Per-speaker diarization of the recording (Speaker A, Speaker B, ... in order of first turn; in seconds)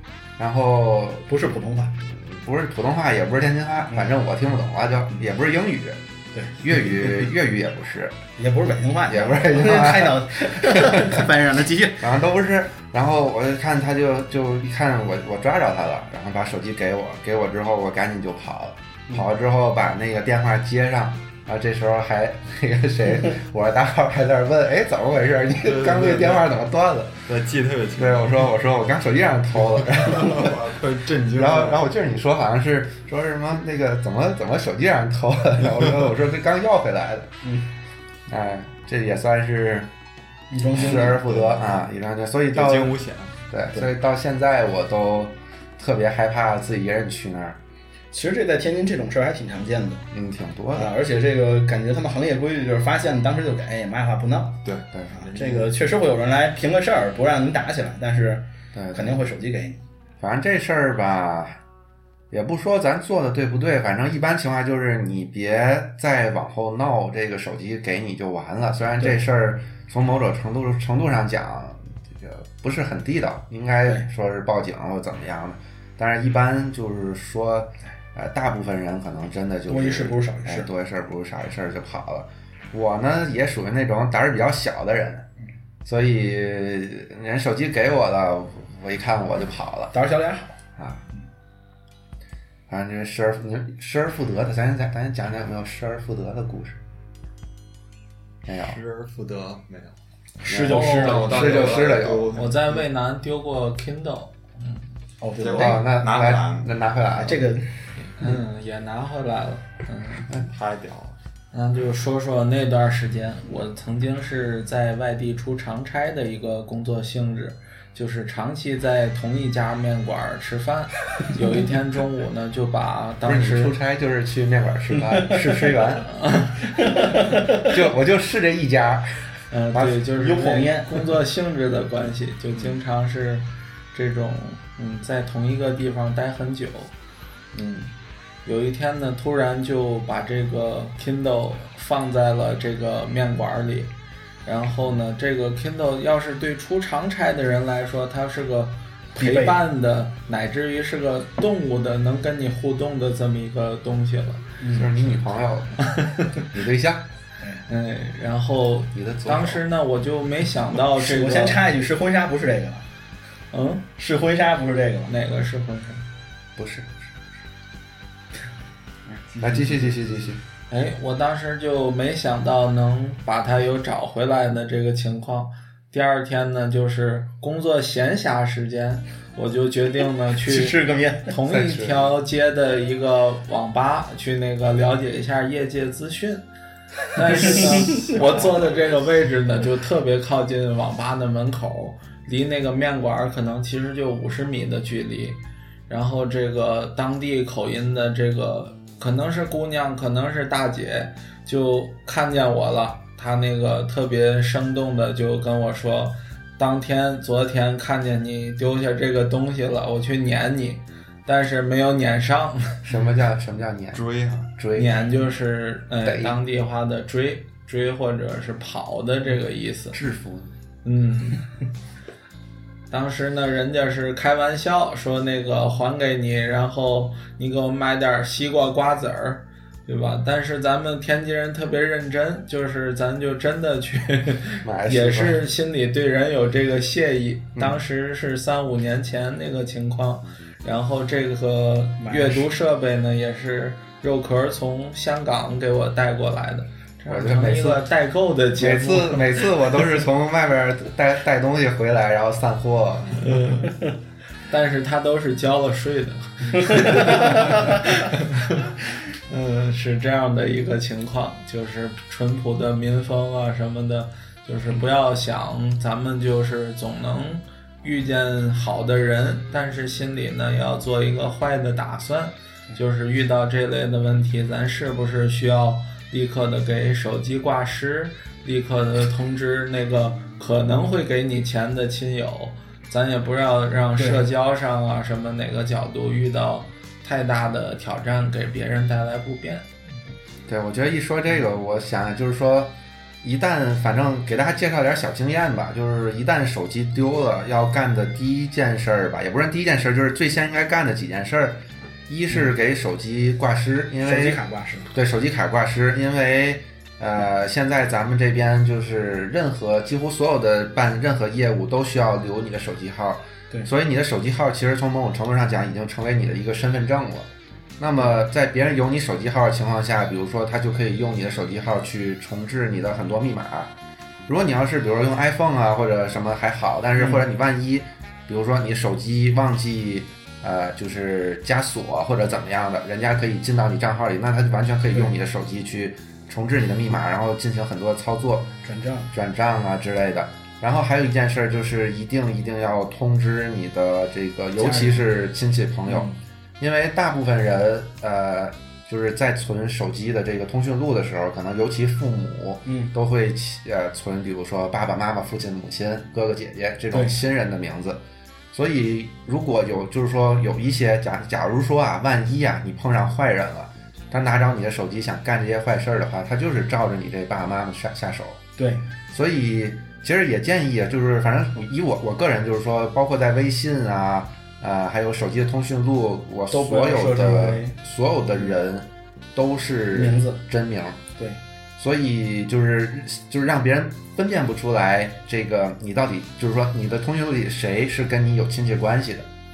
Speaker A: 0.4-1.3, 2.0-6.0, 6.5-8.2, 9.1-11.3, 12.0-27.2, 28.0-30.6, 31.3-37.3, 38.3-39.9, 40.7-43.0, 43.5-47.6, 50.1-50.9, 54.9-55.2, 58.7-59.2, 60.2-61.6, 62.3-85.3, 85.8-89.9, 90.8-91.0, 92.7-96.8, 98.4-98.8, 100.5-102.4, 105.5-107.4, 123.2-126.1, 127.5-129.2, 137.5-137.9, 154.7-157.1, 158.9-159.6, 166.6-167.1, 169.4-170.4, 181.4-182.1, 212.8-214.0, 214.6-215.0, 216.0-216.4, 219.9-220.5, 234.6-235.4, 237.5-237.8, 247.1-247.8, 248.6-253.4, 290.5-323.7, 324.3-338.5, 339.1-368.4, 369.1-381.0, 381.8-389.3
Speaker B: 1.3-2.0, 8.4-12.1, 37.4-37.7, 40.5-41.2, 48.1-50.0, 50.7-54.6, 55.2-59.8, 79.7-80.7, 89.9-90.5, 100.4-101.5, 105.2-105.8, 107.2-107.8, 125.0-125.7, 126.7-127.7, 130.1-131.0, 149.2-149.6, 154.6-154.9, 161.0-162.8, 164.0-165.1, 169.1-169.8, 180.4-181.3, 187.4-188.3, 242.0-242.5, 256.8-257.5, 283.9-284.2, 304.0-304.9, 326.9-327.2, 338.6-339.1, 344.6-345.0, 345.9-346.2, 352.6-352.9, 368.6-368.8, 376.5-377.7, 379.9-380.4
Speaker C: 25.5-26.5, 27.3-28.5, 29.8-31.9, 40.8-41.7, 42.5-43.4, 54.6-55.7, 98.5-100.0, 100.6-102.8, 105.4-107.3, 110.4-111.2, 213.9-214.5
Speaker D: 100.7-104.8, 108.0-110.3, 111.5-123.8, 126.1-126.6, 129.5-136.9, 138.4-143.9, 144.4-154.5, 155.9-156.2, 157.7-161.6, 163.5-163.8, 165.1-166.0, 170.7-186.4, 187.1-212.8, 214.7-220.0, 220.8-221.4, 222.9-249.4, 253.2-253.7, 254.5-258.7, 259.3-289.6